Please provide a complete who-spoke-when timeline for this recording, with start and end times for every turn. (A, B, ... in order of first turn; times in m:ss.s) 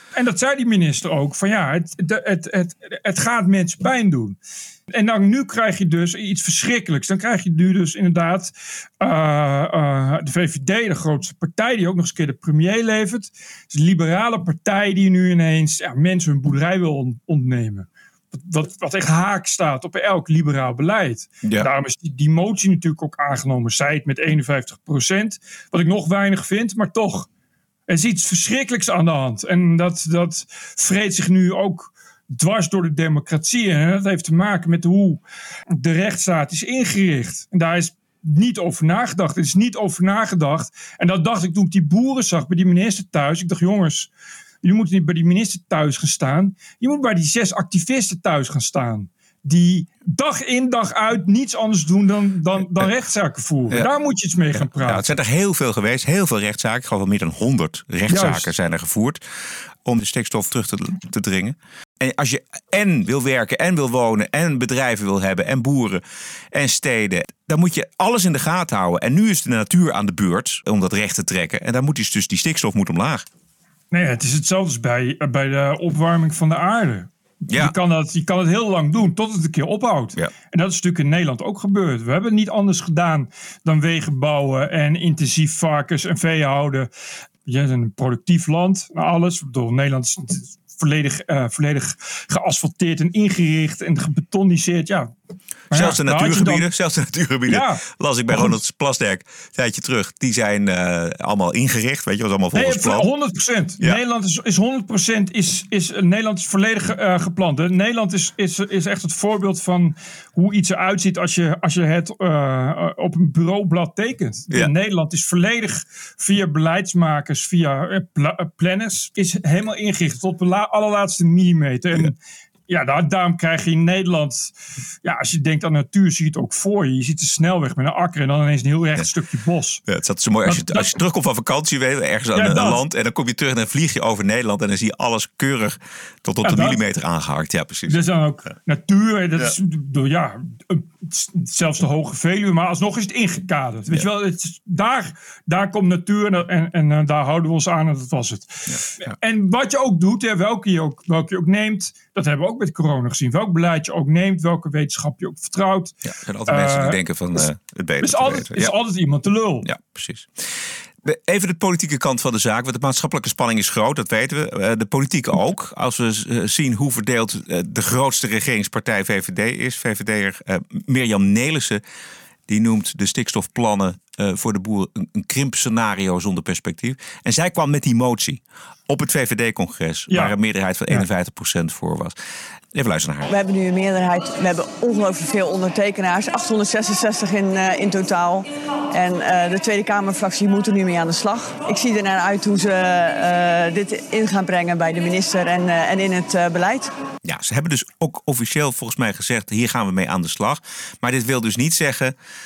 0:00.1-0:04.4 A
0:04.9-0:27.3 A
0:27.9-0:35.2 A
0:35.7-0:44.1 A
0:44.6-0:55.1 A
0:54.6-0:59.2 B
0:58.1-0:58.5 A
0:59.8-1:13.2 B
1:13.9-1:26.9 A
1:27.4-1:35.1 A
1:35.7-1:36.7 A
1:35.7-1:43.1 B
1:37.5-1:38.5 A
1:42.5-2:02.2 A
2:02.7-2:04.5 A
2:05.0-2:09.8 A
2:09.9-2:18.0 B
2:10.4-2:10.9 A
2:12.3-2:12.8 A
2:16.4-2:16.8 A
2:17.9-2:36.0 A
2:36.0-2:38.7 B
2:36.5-2:37.4 A
2:38.0-2:39.7 A
2:39.6-2:51.8 B
2:52.5-3:02.2 B
3:00.1-3:00.4 A
3:02.7-3:03.3 B
3:03.3-3:16.9 C
3:17.2-3:22.1 B